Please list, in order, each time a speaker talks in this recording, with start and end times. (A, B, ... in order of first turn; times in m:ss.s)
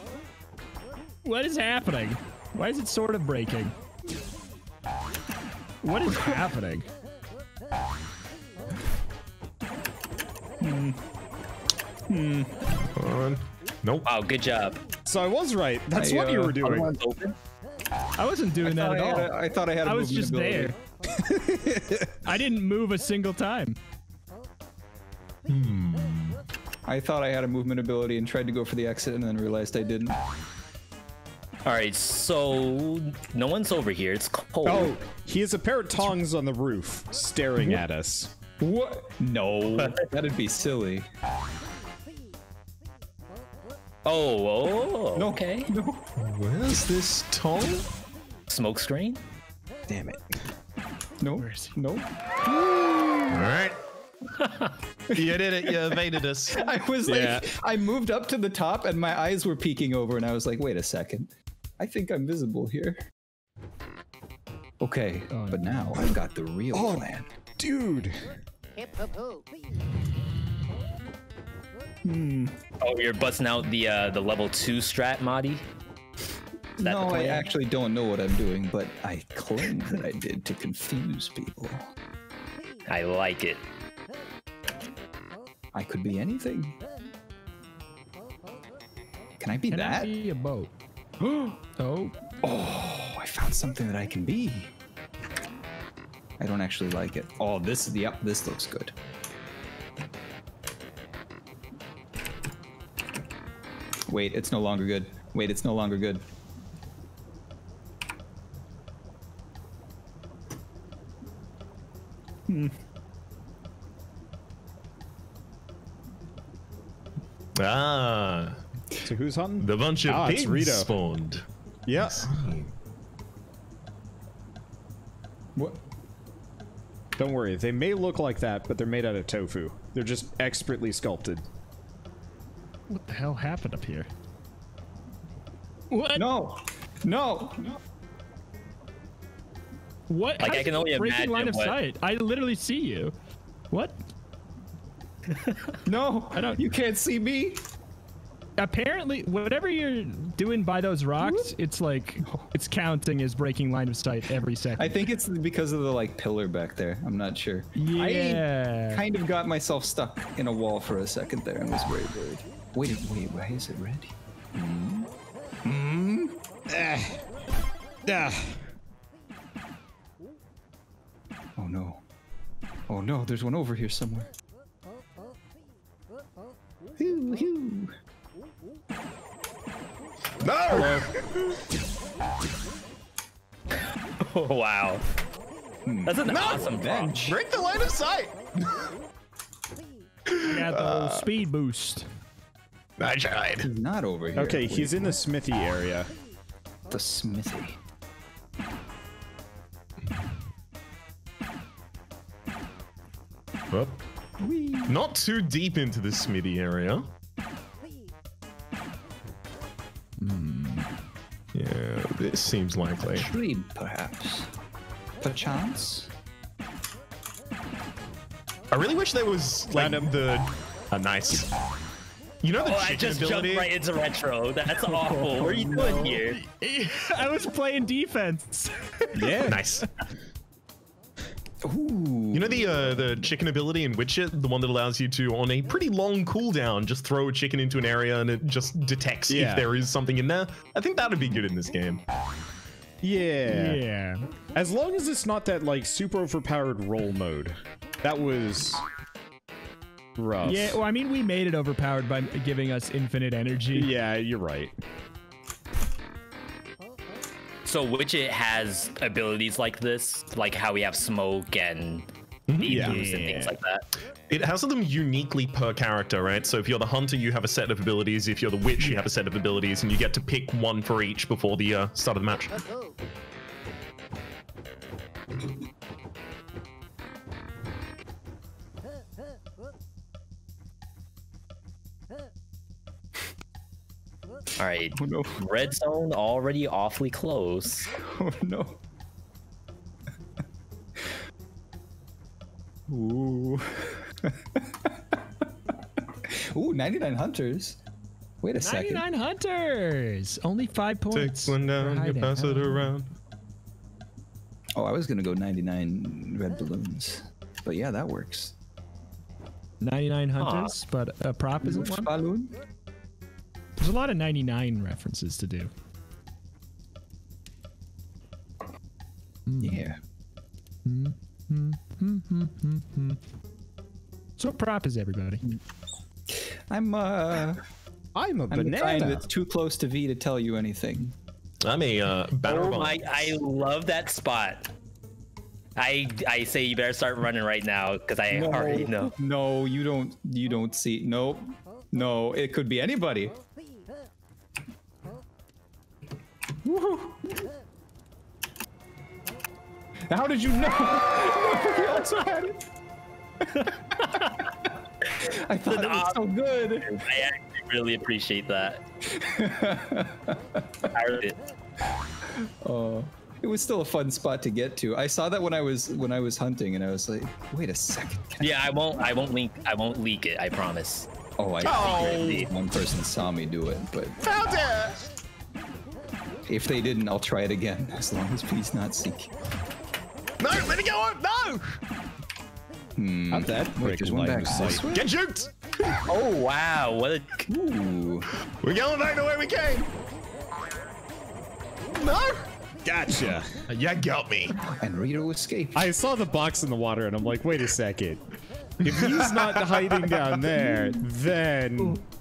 0:01.2-0:03.7 A
0:05.8-0:06.9 A
0:10.6-0:11.0 B
0:12.1-0:12.6 B
0:13.0-0:14.1 C
0:14.1-0:14.8 D
0:15.1-0:17.0 E
0:15.9-0:17.3 B
0:18.2-0:20.8 A
0:18.6-0:20.8 B
0:21.2-0:22.1 E
0:22.2-0:23.8 A
0:25.5-0:26.4 C
0:26.9-0:30.2 B
0:31.6-0:35.0 D
0:34.6-0:38.4 E
0:38.6-0:41.1 B
0:44.0-0:45.7 D
0:45.2-0:46.1 B
0:46.2-0:47.9 C
0:48.5-0:49.2 D
0:49.9-0:50.2 E
0:51.2-0:53.5 B
0:51.4-0:51.8 A
0:53.3-0:53.8 C
0:54.4-0:54.7 D
0:55.1-0:56.7 C
0:55.2-1:03.1 B
0:57.1-0:57.5 E
1:04.8-1:07.3 B
1:05.3-1:06.0 A
1:06.7-1:07.1 E
1:07.6-1:08.4 E
1:12.0-1:12.6 B
1:12.8-1:15.6 D
1:16.8-1:21.9 B
1:16.8-1:17.5 D
1:22.9-1:23.6 D
1:25.7-1:26.8 B
1:29.4-1:30.1 B
1:29.7-1:30.7 A
1:31.2-1:31.6 B
1:31.8-1:32.2 A
1:32.4-1:34.7 B
1:36.4-1:38.9 B
1:44.1-1:46.2 B
1:52.5-1:52.8 B
1:57.6-1:58.6 C
1:59.0-2:00.9 E
1:59.6-2:01.4 C
2:01.9-2:02.5 E
2:02.0-2:02.7 C
2:07.2-2:11.4 E
2:12.9-2:14.1 A
2:15.9-2:16.3 A
2:16.2-2:17.8 B
2:20.1-2:23.1 A
2:20.4-2:21.8 D
2:23.7-2:24.0 A
2:25.9-2:27.6 B
2:26.3-2:26.6 A
2:28.6-2:35.1 A
2:31.2-2:31.5 B
2:34.8-2:45.1 B
2:37.8-2:39.0 A
2:45.6-2:46.4 B
2:46.7-2:47.2 E
2:48.0-2:48.6 E
2:51.6-2:52.0 B
2:52.9-2:54.3 B
2:57.0-2:57.9 B
3:00.4-3:01.6 C
3:04.2-3:05.0 D
3:05.9-3:07.4 B
3:06.1-3:07.0 D
3:06.3-3:08.9 C
3:10.3-3:11.3 C
3:10.4-3:12.1 A
3:13.0-3:13.7 C
3:13.6-3:15.2 B
3:14.4-3:16.1 E
3:16.9-3:17.8 B
3:23.7-3:24.0 C
3:24.4-3:25.0 B
3:24.9-3:27.1 C
3:30.2-3:30.9 A
3:31.5-3:33.3 C
3:33.0-3:34.5 B
3:35.2-3:36.1 B
3:38.7-3:41.5 C
3:39.7-3:40.2 E
3:42.4-3:43.7 C
3:42.6-3:46.4 D
3:44.9-3:49.5 A
3:49.2-3:49.6 E
3:49.4-3:49.9 C
3:51.6-3:53.3 B
3:52.3-4:02.0 C
3:59.3-3:59.7 E
4:03.0-4:03.8 E
4:03.5-4:04.2 A
4:04.5-4:08.8 E
4:10.2-4:10.8 E
4:10.4-4:13.9 A
4:13.7-4:14.7 E
4:17.6-4:22.1 D
4:22.5-4:23.0 C
4:22.6-4:23.9 D
4:22.6-4:23.6 E
4:22.8-4:23.4 A
4:24.3-4:32.6 C
4:44.6-4:47.9 D
4:45.0-4:45.4 B
4:48.0-4:48.8 B
4:52.9-4:55.2 B
4:56.3-4:57.8 B
4:58.4-4:59.0 B
4:58.6-5:02.9 A
5:01.1-5:03.1 C
5:04.8-5:08.6 B
5:09.8-5:12.1 A
5:10.4-5:10.7 D
5:11.6-5:12.6 B
5:13.8-5:15.7 A
5:19.5-5:19.8 A
5:19.6-5:20.0 B
5:20.9-5:23.2 A
5:24.4-5:25.4 A
5:26.3-5:27.6 B
5:28.2-5:29.3 E
5:28.5-5:31.2 B
5:31.6-5:33.4 C
5:32.4-5:34.7 D
5:35.8-5:39.1 D
5:38.3-5:43.4 B
5:46.6-5:47.4 B
5:50.1-5:52.7 B
5:53.4-5:57.0 B
5:55.7-5:58.8 D
5:59.1-6:00.9 B
6:00.9-6:01.4 D
6:02.3-6:09.1 B
6:08.4-6:11.1 D
6:11.4-6:14.2 B
6:11.6-6:12.5 C
6:11.6-6:12.2 D
6:14.2-6:15.1 C
6:16.5-6:19.3 B
6:20.4-6:21.8 C
6:23.0-6:25.1 B
6:23.3-6:24.8 E
6:24.9-6:26.1 C
6:26.1-6:27.5 D
6:27.5-6:28.3 B
6:28.6-6:29.9 C
6:31.9-6:32.5 C
6:32.8-6:33.5 E
6:33.7-6:34.6 C
6:34.6-6:35.9 B
6:35.7-6:38.2 E
6:38.8-6:40.3 C
6:38.8-6:42.0 E